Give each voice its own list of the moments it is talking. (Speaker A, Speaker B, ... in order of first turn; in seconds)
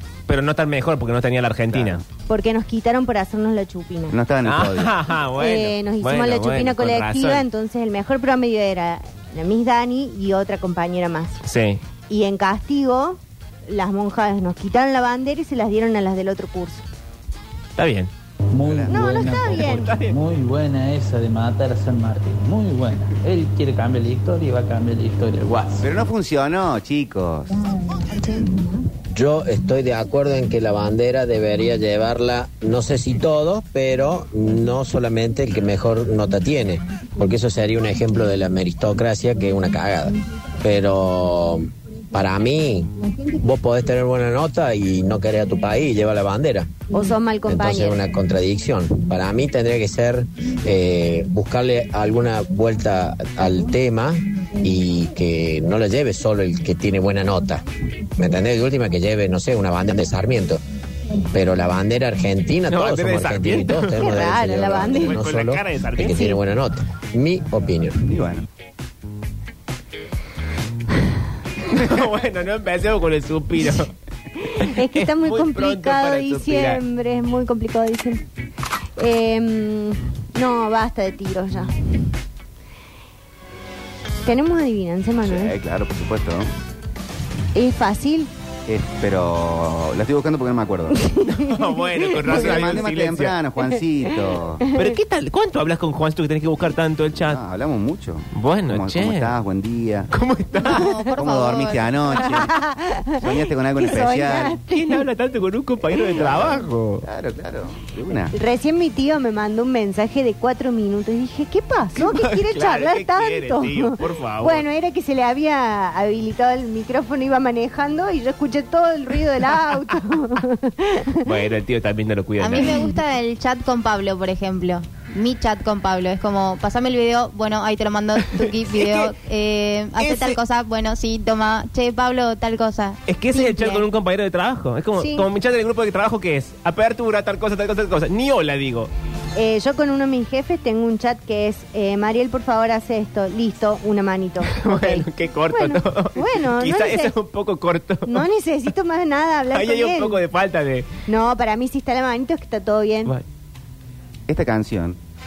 Speaker A: 0.3-2.0, 4.5-7.4, 11.4-11.8, 17.8-18.1, 19.3-20.1, 62.7-64.2, 64.8-66.2, 71.7-73.9, 74.5-76.8, 91.3-93.3, 94.7-97.4, 98.3-99.3, 100.1-100.9, 104.7-107.1, 112.0-114.6, 121.2-122.9, 128.2-129.1, 130.0-130.4, 133.1-138.9, 144.4-148.3, 149.5-150.9
Speaker B: 1.7-2.0, 4.1-5.0, 18.6-18.9, 25.8-27.6, 68.1-68.5, 85.2-86.5, 88.7-91.0, 92.2-94.6, 97.3-100.1, 101.1-102.5, 103.2-104.6, 105.8-108.3, 154.3-155.0
Speaker C: 2.3-4.2, 5.4-11.4, 12.1-16.9, 18.9-20.0, 46.9-48.0, 64.0-65.2, 66.0-66.4, 74.4-78.2, 79.0-82.1, 84.2-85.6, 87.5-88.3, 90.9-92.4, 94.6-94.9, 102.2-105.0, 108.3-121.3, 122.5-123.0, 135.0-135.3, 139.4-147.2, 148.1-150.2, 151.1-153.1
Speaker D: 18.5-25.9
Speaker E: 29.1-46.7, 47.5-57.6, 58.2-60.6, 61.3-68.1
Speaker F: 100.6-102.2, 122.4-133.8